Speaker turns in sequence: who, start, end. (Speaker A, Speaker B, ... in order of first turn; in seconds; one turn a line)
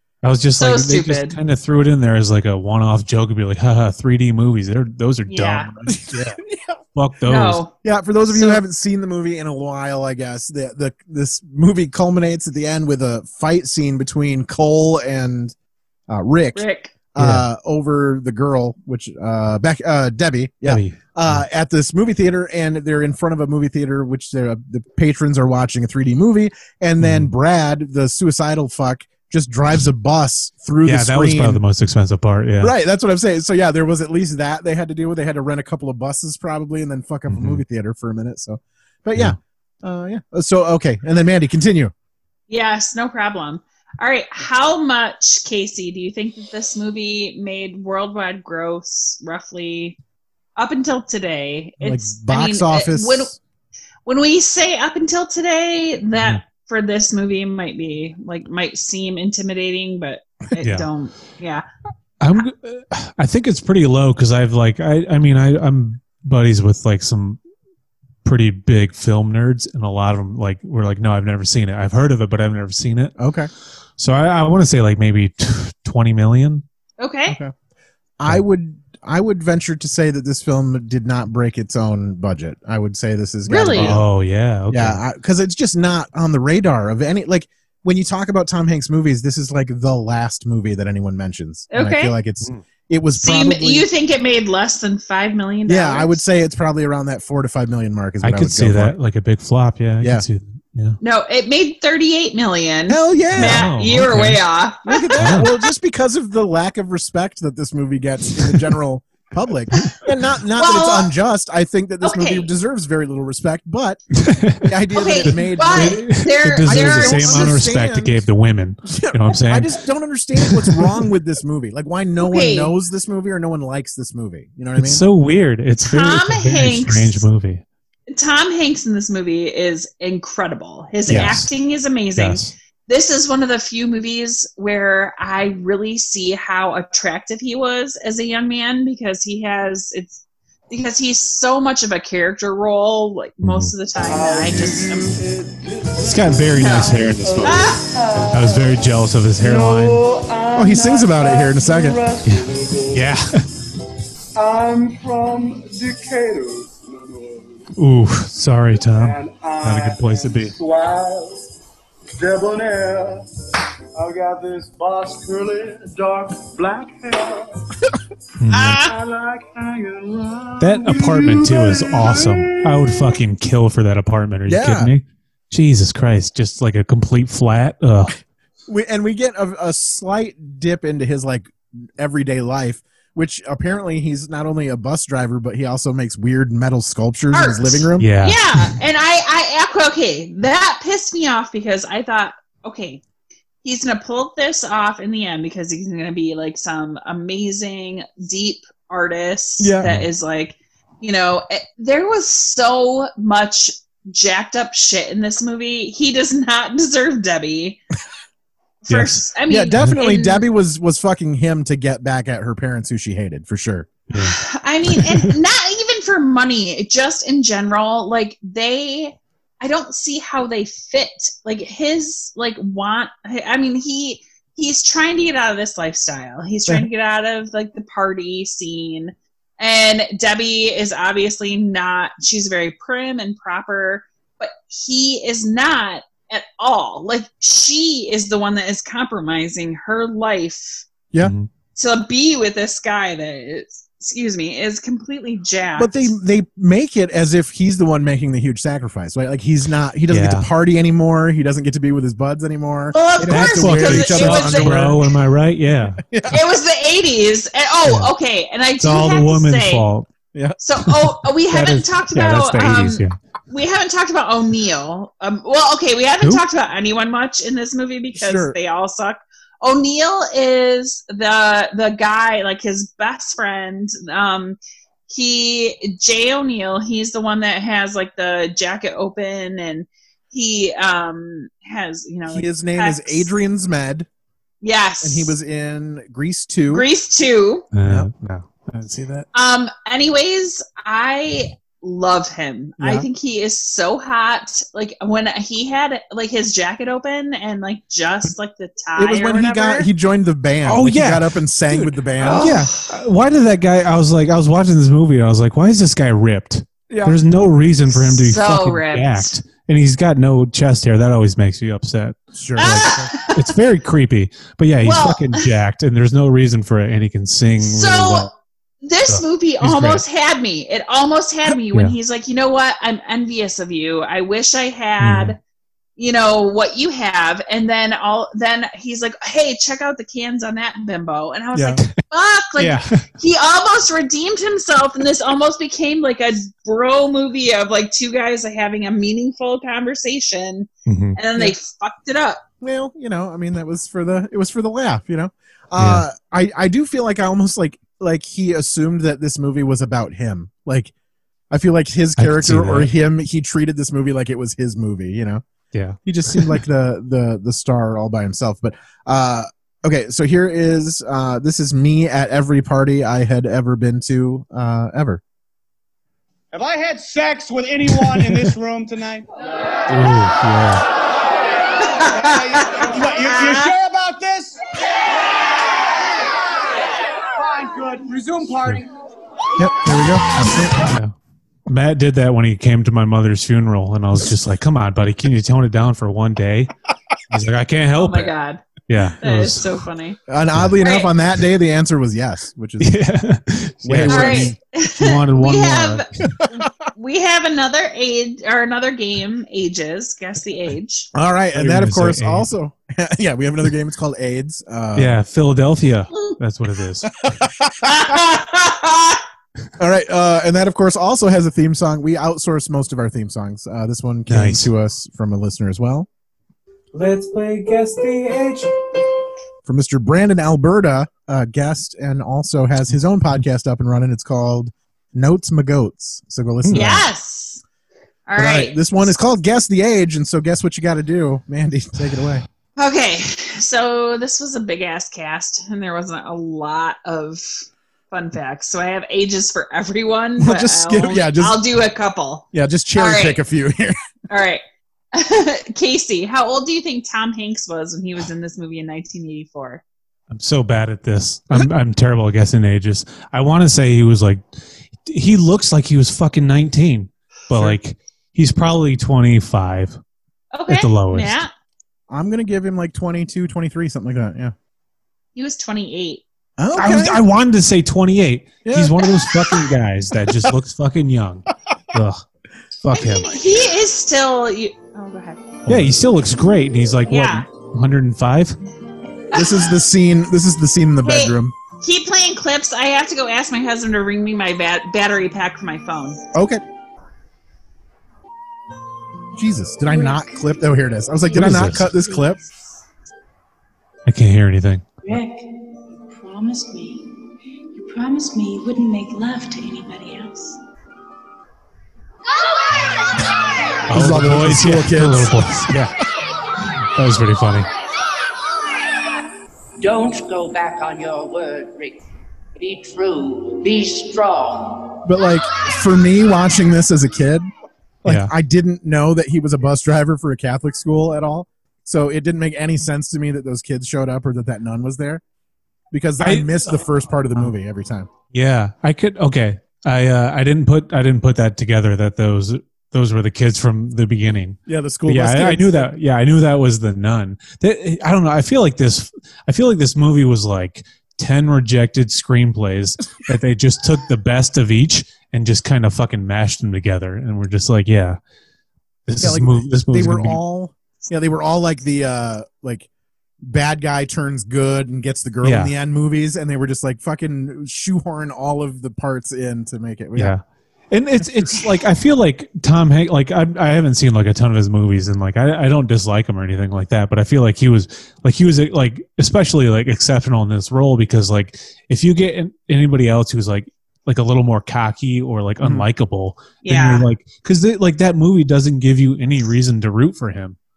Speaker A: 0.2-6.4
Speaker B: 0.6-1.4
Speaker B: 5.3-5.7
Speaker C: 5.9-6.8
Speaker A: 6.9-7.6
Speaker B: 7.2-7.7
Speaker C: 7.8-15.5
Speaker B: 8.3-8.6
Speaker C: 16.1-31.6
Speaker B: 16.5-16.9
Speaker A: 17.2-17.4
Speaker A: 20.6-21.4
Speaker A: 27.0-27.3
Speaker A: 30.8-32.7
Speaker C: 32.6-41.9
Speaker A: 37.3-37.6
Speaker B: 42.5-50.0
Speaker B: 50.6-53.3
Speaker C: 51.8-53.4
Speaker B: 54.0-61.6
Speaker A: 60.6-60.9
Speaker A: 62.2-67.4
Speaker A: 68.2-73.1
Speaker C: 73.2-73.5
Speaker A: 74.0-76.6
Speaker B: 77.0-77.4
Speaker C: 77.3-77.5
Speaker C: 78.2-84.1
Speaker B: 83.5-84.0
Speaker A: 83.7-85.0
Speaker C: 84.7-93.9
Speaker B: 91.7-92.1
Speaker B: 93.1-96.2
Speaker C: 95.7-99.0
Speaker A: 98.2-101.0
Speaker C: 100.0-100.2
Speaker B: 101.0-105.7
Speaker C: 102.9-103.7
Speaker A: 103.3-104.4
Speaker C: 104.8-114.0
Speaker A: 105.2-105.5
Speaker B: 110.5-111.1
Speaker B: 112.0-112.5
Speaker A: 114.2-114.7
Speaker C: 114.6-118.2
Speaker B: 114.9-117.5
Speaker A: 115.3-119.7
Speaker C: 118.9-125.0
Speaker A: 120.4-120.9
Speaker B: 122.2-122.7
Speaker A: 124.8-127.6
Speaker B: 125.8-127.2
Speaker B: 128.1-145.2
Speaker A: 131.1-131.5
Speaker A: 132.2-132.5
Speaker A: 143.4-143.7
Speaker D: 144.0-148.8
Speaker A: 146.0-150.0
Speaker B: 146.6-147.8
Speaker D: 149.4-153.1
Speaker C: 150.5-152.0
Speaker A: 152.2-153.4
Speaker D: 154.4-157.4
Speaker A: 157.8-160.6
Speaker D: 158.8-161.3
Speaker D: 162.2-163.2
Speaker D: 164.0-167.4
Speaker A: 168.4-168.8
Speaker B: 168.5-168.9
Speaker D: 168.9-173.1
Speaker A: 170.6-178.2
Speaker C: 174.5-174.9
Speaker C: 178.7-188.1
Speaker B: 187.3-193.0
Speaker A: 188.0-188.7
Speaker B: 193.6-207.8
Speaker C: 199.6-200.0
Speaker B: 208.8-210.4
Speaker A: 208.9-209.3
Speaker C: 209.5-213.9
Speaker A: 214.1-214.4
Speaker B: 214.2-240.8
Speaker A: 214.9-215.3
Speaker A: 241.2-241.5
Speaker B: 241.8-246.1
Speaker C: 245.8-255.0
Speaker A: 250.1-250.5
Speaker B: 252.9-254.8
Speaker A: 253.3-256.0
Speaker C: 256.0-256.4
Speaker B: 256.3-259.9
Speaker A: 257.8-258.1
Speaker A: 258.8-260.1
Speaker B: 260.6-283.3
Speaker A: 261.5-263.2
Speaker C: 268.1-268.6
Speaker C: 282.3-284.1
Speaker B: 284.6-285.4
Speaker C: 285.0-286.9
Speaker B: 286.7-287.7
Speaker A: 287.7-289.2
Speaker C: 287.8-288.1
Speaker B: 289.3-299.9
Speaker C: 292.8-293.1
Speaker C: 298.9-302.6
Speaker A: 300.6-318.3
Speaker B: 302.2-302.9
Speaker C: 306.9-307.2
Speaker B: 307.9-309.4
Speaker C: 312.3-313.1
Speaker B: 312.6-313.5
Speaker B: 314.8-315.5
Speaker B: 317.6-318.3
Speaker B: 318.8-325.4
Speaker A: 319.1-320.0
Speaker A: 325.0-325.4
Speaker B: 326.0-342.4
Speaker A: 332.6-333.0
Speaker A: 340.9-341.2
Speaker C: 342.6-350.9
Speaker A: 345.8-346.0
Speaker C: 351.5-355.4
Speaker A: 352.2-352.9
Speaker A: 355.7-356.6
Speaker C: 356.0-365.2
Speaker E: 366.5-368.9
Speaker A: 369.9-370.8
Speaker B: 372.0-373.7
Speaker E: 372.4-374.4
Speaker E: 377.6-378.6
Speaker C: 379.6-380.9
Speaker A: 380.9-381.1
Speaker A: 381.7-386.7
Speaker A: 387.3-388.3
Speaker B: 388.0-388.6
Speaker A: 388.9-389.8
Speaker B: 389.2-390.2
Speaker C: 390.3-393.0
Speaker B: 390.8-391.1
Speaker A: 392.8-396.0
Speaker C: 393.8-394.6
Speaker B: 394.1-401.1
Speaker C: 401.1-405.1
Speaker A: 401.5-402.5
Speaker A: 404.9-407.2
Speaker C: 407.2-408.1
Speaker B: 407.8-409.2
Speaker C: 409.8-416.1
Speaker A: 414.3-414.7
Speaker A: 416.9-418.7
Speaker C: 419.6-427.0
Speaker A: 426.6-427.0
Speaker B: 426.7-427.6
Speaker B: 428.3-429.2
Speaker C: 428.4-432.4
Speaker B: 432.8-443.4
Speaker C: 440.4-441.6
Speaker C: 442.5-443.9
Speaker B: 444.3-444.6
Speaker B: 445.1-449.8
Speaker A: 450.3-454.4
Speaker A: 455.1-460.0
Speaker B: 460.5-461.5
Speaker A: 460.7-461.4
Speaker C: 462.1-464.5
Speaker B: 465.3-466.2
Speaker C: 466.6-467.2
Speaker A: 466.7-472.2
Speaker C: 468.6-469.6
Speaker A: 472.8-473.4
Speaker B: 472.9-475.4
Speaker C: 475.6-475.9
Speaker A: 475.7-478.6
Speaker B: 477.1-477.4
Speaker B: 479.3-479.7
Speaker C: 479.3-481.5
Speaker B: 481.0-486.2
Speaker C: 486.3-486.6
Speaker C: 489.3-492.4
Speaker F: 489.9-490.4
Speaker A: 491.3-491.9
Speaker A: 494.1-495.1
Speaker F: 495.0-500.6
Speaker A: 503.9-505.9
Speaker C: 503.9-505.9
Speaker A: 506.9-507.7
Speaker C: 515.0-517.5
Speaker C: 518.0-525.2
Speaker A: 518.0-518.3
Speaker C: 525.9-528.1
Speaker A: 526.2-527.5
Speaker A: 528.3-548.2
Speaker C: 534.7-535.9
Speaker A: 549.1-550.4
Speaker C: 549.2-552.9
Speaker C: 553.4-560.3
Speaker A: 555.4-555.7
Speaker A: 560.1-580.6
Speaker C: 575.6-575.9
Speaker B: 576.6-577.1